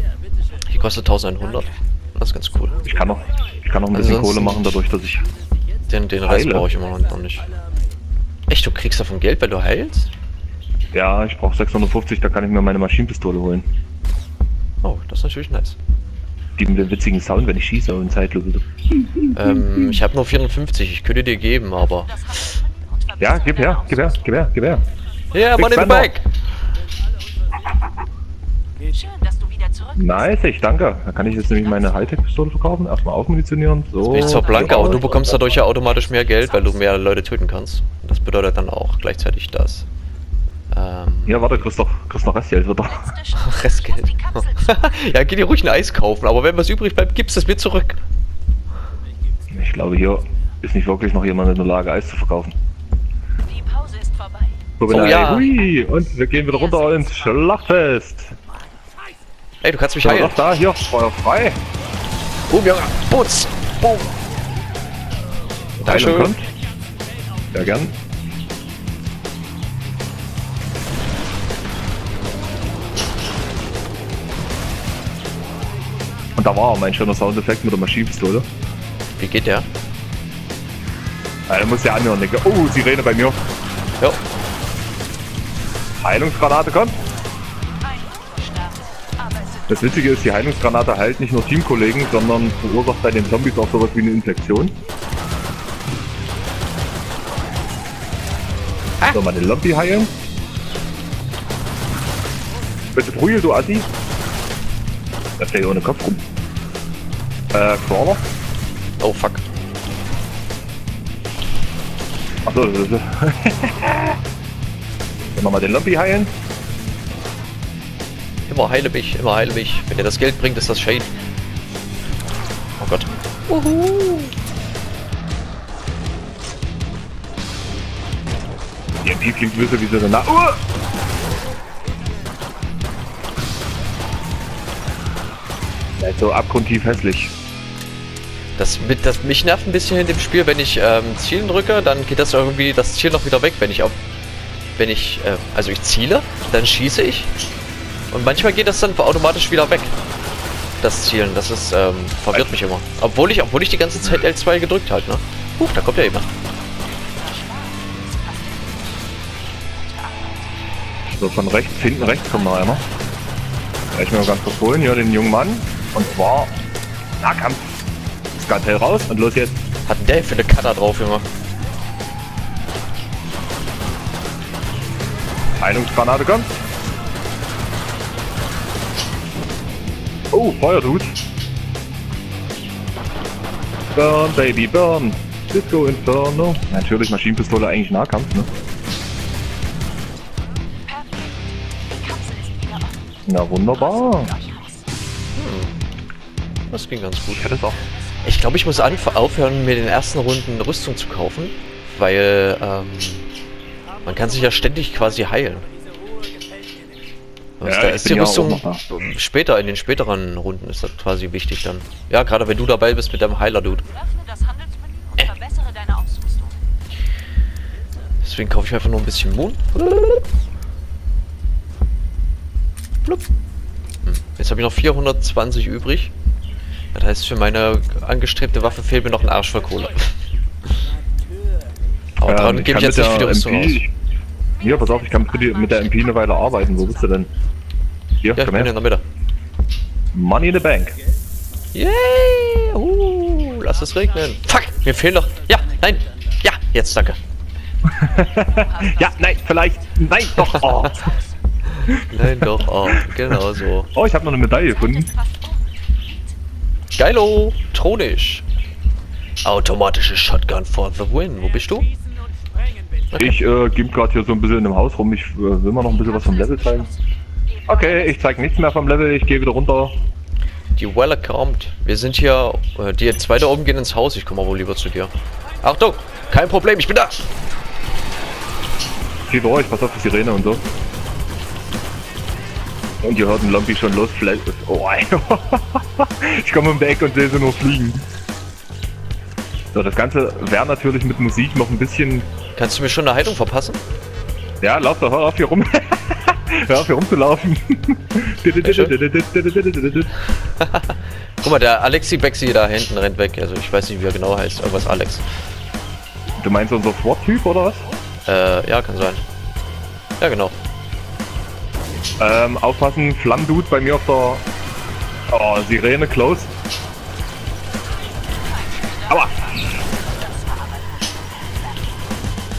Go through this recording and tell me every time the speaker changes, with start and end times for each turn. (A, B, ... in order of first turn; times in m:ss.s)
0:00.7-0:02.9 A
0:02.8-0:05.3 B
0:03.9-0:04.6 A
0:05.9-0:07.6 A
0:06.2-0:06.7 B
0:08.5-0:10.1 A
0:10.9-0:13.7 B
0:14.8-0:15.8 A
0:16.6-0:20.0 B
0:19.3-0:22.2 A
0:21.8-0:24.6 C
0:23.2-0:24.8 B
0:25.3-0:26.2 A
0:25.5-0:26.1 B
0:28.9-0:30.6 C
0:30.0-0:35.4 B
0:31.3-0:32.2 C
0:34.0-0:39.9 A
0:34.1-0:36.8 C
0:40.7-0:41.6 A
0:41.3-0:43.1 B
0:42.9-0:45.0 C
0:43.4-0:48.0 A
0:49.5-0:52.6 B
0:53.4-0:54.7 C
0:54.8-0:58.4 B
0:54.9-0:55.6 A
0:56.3-0:57.4 C
0:59.6-1:00.5 A
1:00.0-1:01.6 B
1:02.5-1:04.1 A
1:05.8-1:06.5 B
1:05.9-1:06.3 A
1:07.5-1:08.0 B
1:16.4-1:18.5 B
1:19.2-1:19.7 A
1:21.5-1:23.4 B
1:26.0-1:27.0 B
1:27.8-1:30.2 C
1:29.7-1:34.8 B
1:39.1-1:40.1 B
1:43.0-1:43.9 B
1:45.4-1:46.2 B
1:47.5-1:48.2 B
1:49.0-1:49.4 A
1:52.5-1:54.2 B
1:55.4-1:56.3 B
1:58.5-2:01.1 A
2:02.8-2:04.4 A
2:09.0-2:10.6 B
2:16.0-2:17.3 B
2:18.6-2:24.0 A
2:24.8-2:27.3 A
2:28.1-2:30.0 A
2:30.8-2:36.3 A
2:32.3-2:32.6 B
2:36.9-2:42.9 C
2:41.2-2:42.8 B
2:43.9-2:46.6 B
2:47.2-2:47.7 B
2:48.4-2:49.6 B
2:49.9-2:51.3 A
2:55.6-2:56.5 B
3:00.3-3:01.1 B
3:04.0-3:08.5 B
3:10.8-3:14.9 C
3:13.3-3:14.3 B
3:15.4-3:15.7 A
3:16.7-3:17.6 A
3:17.3-3:17.8 B
3:17.8-3:19.7 C
3:18.2-3:23.3 A
3:24.0-3:25.7 A
3:27.6-3:33.8 A
3:27.6-3:28.8 B
3:33.8-3:36.6 C
3:38.2-3:40.3 A
3:44.0-3:46.1 A
3:46.9-3:50.2 A
3:52.2-3:53.8 A
3:52.2-3:53.9 B
3:54.5-3:57.3 C
3:54.6-3:57.3 B
3:58.2-3:58.7 B
3:58.4-3:59.0 A
4:00.1-4:01.0 B
4:01.7-4:07.2 A
4:07.9-4:11.1 B
4:07.9-4:11.3 C
4:11.8-4:13.9 A
4:11.9-4:15.1 B
4:14.5-4:16.4 C
4:17.0-4:18.4 A
4:19.4-4:21.9 A
4:23.1-4:23.4 A
4:23.2-4:26.9 B
4:25.8-4:28.5 C
4:27.7-4:30.0 B
4:30.8-4:37.2 A
4:39.3-4:40.6 B
4:43.0-4:48.0 B
4:49.7-4:52.3 B
4:52.6-4:53.8 A
4:54.6-5:00.1 B
4:58.6-4:59.0 A
5:00.4-5:05.3 A
5:06.4-5:07.9 B
5:08.3-5:09.2 A
5:10.2-5:10.6 A
5:12.2-5:14.4 B
5:15.3-5:16.5 B
5:18.3-5:21.8 C
5:19.1-5:19.7 B